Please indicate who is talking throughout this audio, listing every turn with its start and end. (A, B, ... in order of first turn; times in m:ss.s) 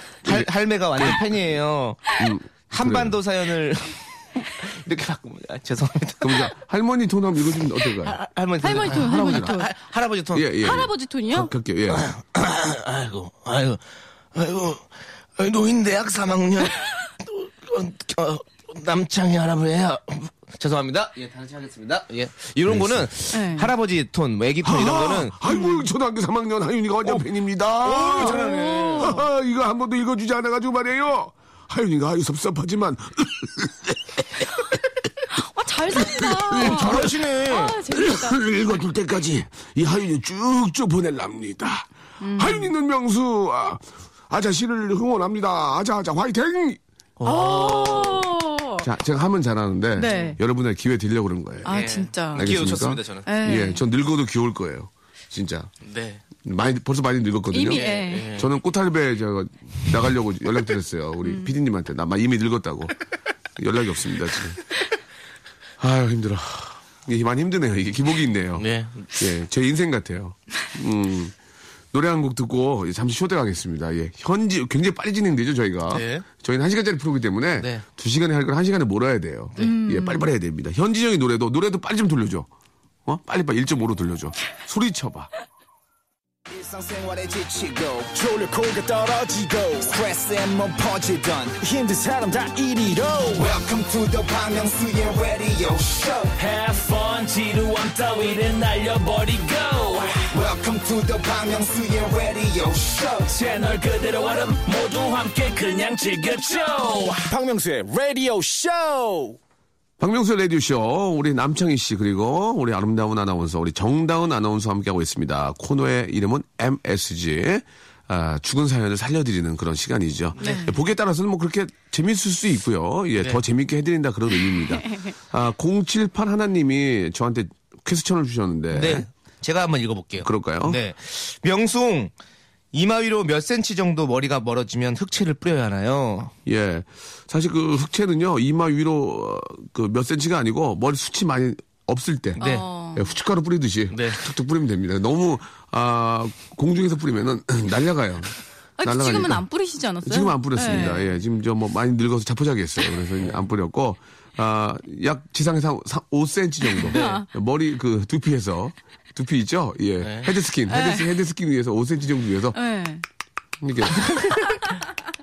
0:00.2-0:06.5 A
0:00.2-0:01.2 B
0:02.2-0:03.2 B
0:06.2-0:08.2 B
0:07.8-0:10.5 A
0:08.6-0:09.7 C
0:08.8-0:09.6 B
0:10.3-0:12.1 B
0:10.6-0:11.5 C
0:11.9-0:13.8 A
0:14.3-0:25.4 A
0:22.7-0:23.1 B
0:23.3-0:23.7 C
0:24.6-0:34.8 B
0:25.5-0:25.8 C
0:27.8-0:29.2 A
0:28.1-0:29.3 C
0:35.3-0:38.5 C
0:35.9-0:37.2 B
0:36.6-0:37.8 A
0:37.9-0:46.8 B
0:42.2-0:42.7 C
0:47.2-0:48.3 A
0:47.2-0:48.9 C
0:48.8-0:51.8 B
0:50.0-0:50.4 C
0:50.0-0:50.4 A
0:51.6-0:52.5 C
0:51.6-0:53.3 A
0:52.3-0:55.7 B
0:53.3-0:53.8 C
0:55.8-0:56.2 A
0:56.4-1:02.9 B
0:57.5-0:58.3 C
0:57.7-0:58.5 A
1:01.2-1:01.5 C
1:03.6-1:04.6 B
1:05.8-1:11.4 B
1:08.6-1:09.1 A
1:11.9-1:22.5 B
1:15.9-1:16.3 A
1:17.6-1:17.8 A
1:19.6-1:20.3 C
1:23.1-1:25.3 B
1:26.5-1:36.4 D
1:36.4-1:40.2 E
1:40.2-1:43.4 D
1:43.3-1:47.3 E
1:47.2-1:49.4 D
1:50.0-2:09.1 B
2:00.4-2:00.7 A
2:00.4-2:00.8 C
2:04.5-2:05.2 C
2:08.7-2:12.1 A
2:10.2-2:10.8 B
2:12.7-2:16.3 A
2:16.5-2:22.4 B
2:22.4-2:23.1 C
2:22.4-2:22.7 A
2:23.0-2:29.4 B
2:23.9-2:24.3 A
2:28.8-2:31.1 C
2:30.0-2:42.6 B
2:36.7-2:37.3 C
2:36.8-2:37.2 A
2:40.0-2:40.3 A
2:40.7-2:41.1 C
2:42.5-2:43.0 C
2:43.6-2:44.3 B
2:44.0-2:44.6 A